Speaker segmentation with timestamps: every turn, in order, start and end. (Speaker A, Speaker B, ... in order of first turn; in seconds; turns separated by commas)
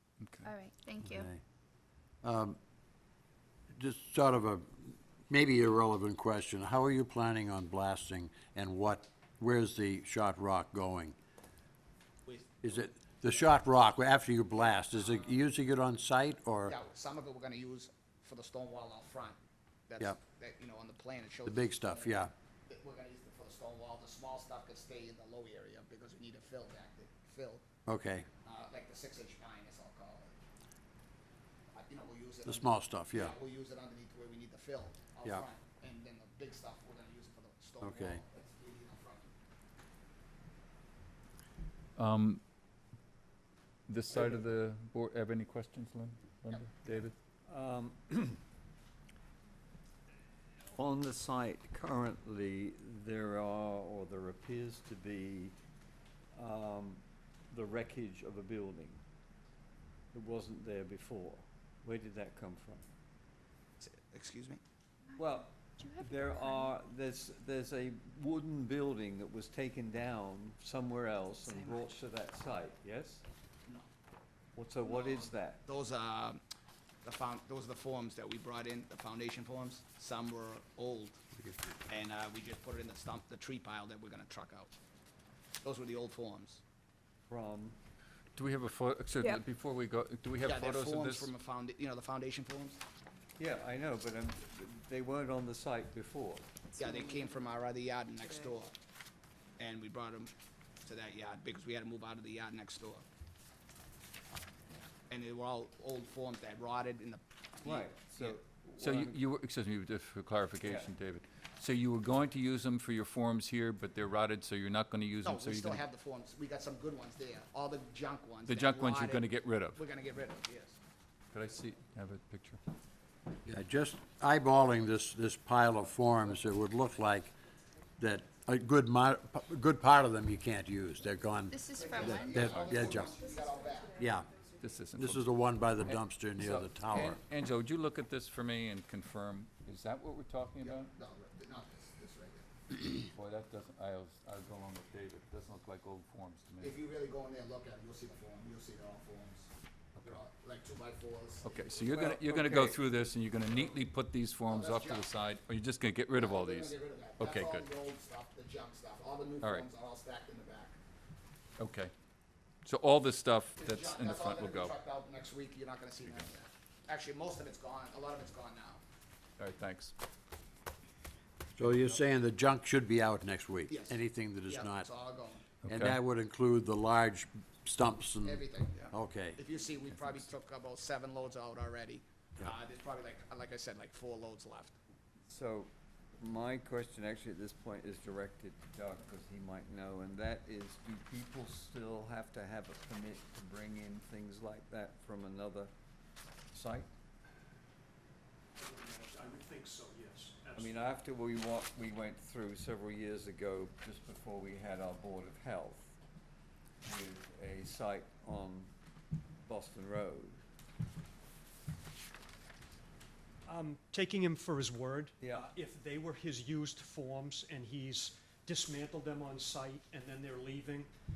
Speaker A: 0.2-0.5, Speaker B: 0.4-1.3, Speaker C: 1.0-1.4, Speaker C: 2.2-2.6, Speaker C: 3.8-11.1, Speaker D: 12.2-13.1, Speaker C: 12.6-16.7, Speaker D: 16.6-19.4, Speaker D: 19.9-27.6, Speaker C: 21.4-22.3, Speaker C: 27.9-28.3, Speaker D: 28.4-30.4, Speaker D: 31.7-39.3, Speaker C: 32.4-33.3, Speaker C: 37.8-38.2, Speaker A: 42.0-42.4, Speaker A: 43.9-47.1, Speaker E: 47.5-48.4, Speaker E: 50.7-55.5, Speaker E: 56.3-59.0, Speaker E: 60.1-62.8, Speaker D: 63.8-64.6, Speaker E: 65.2-73.2, Speaker B: 65.8-66.8, Speaker E: 74.5-75.6, Speaker D: 74.8-76.4, Speaker D: 77.0-81.2, Speaker D: 81.9-84.7, Speaker D: 85.6-86.6, Speaker E: 87.3-87.8, Speaker A: 88.3-91.3, Speaker D: 90.4-92.8, Speaker E: 93.4-96.5, Speaker D: 96.8-98.7, Speaker D: 99.6-100.3, Speaker D: 100.8-103.0, Speaker D: 105.1-108.4, Speaker E: 107.6-109.2, Speaker A: 108.8-115.8, Speaker E: 110.6-110.9, Speaker D: 115.2-120.8, Speaker A: 118.5-119.8, Speaker A: 121.3-122.6, Speaker C: 123.5-127.3, Speaker C: 128.0-133.2, Speaker B: 131.5-133.4, Speaker D: 131.7-134.0, Speaker A: 132.4-132.9, Speaker C: 133.9-134.3, Speaker A: 134.6-135.2, Speaker C: 134.9-137.2, Speaker A: 135.8-140.9, Speaker D: 140.6-143.0, Speaker A: 143.1-146.8, Speaker D: 146.6-151.9, Speaker A: 151.4-157.7, Speaker E: 151.8-152.8, Speaker D: 153.4-153.8, Speaker D: 154.5-155.1, Speaker D: 156.1-160.8, Speaker A: 159.4-159.7, Speaker A: 161.6-161.9, Speaker A: 162.6-164.7, Speaker D: 163.6-168.8, Speaker A: 166.0-166.3, Speaker A: 169.4-169.9, Speaker C: 171.6-174.9, Speaker D: 173.7-175.5, Speaker A: 175.6-176.0, Speaker C: 175.7-179.4, Speaker D: 178.2-184.8, Speaker E: 185.3-195.7, Speaker E: 196.5-196.9, Speaker F: 198.6-200.7, Speaker E: 200.6-206.0, Speaker E: 206.8-208.7, Speaker E: 209.4-210.4, Speaker F: 213.4-220.9, Speaker E: 215.2-215.5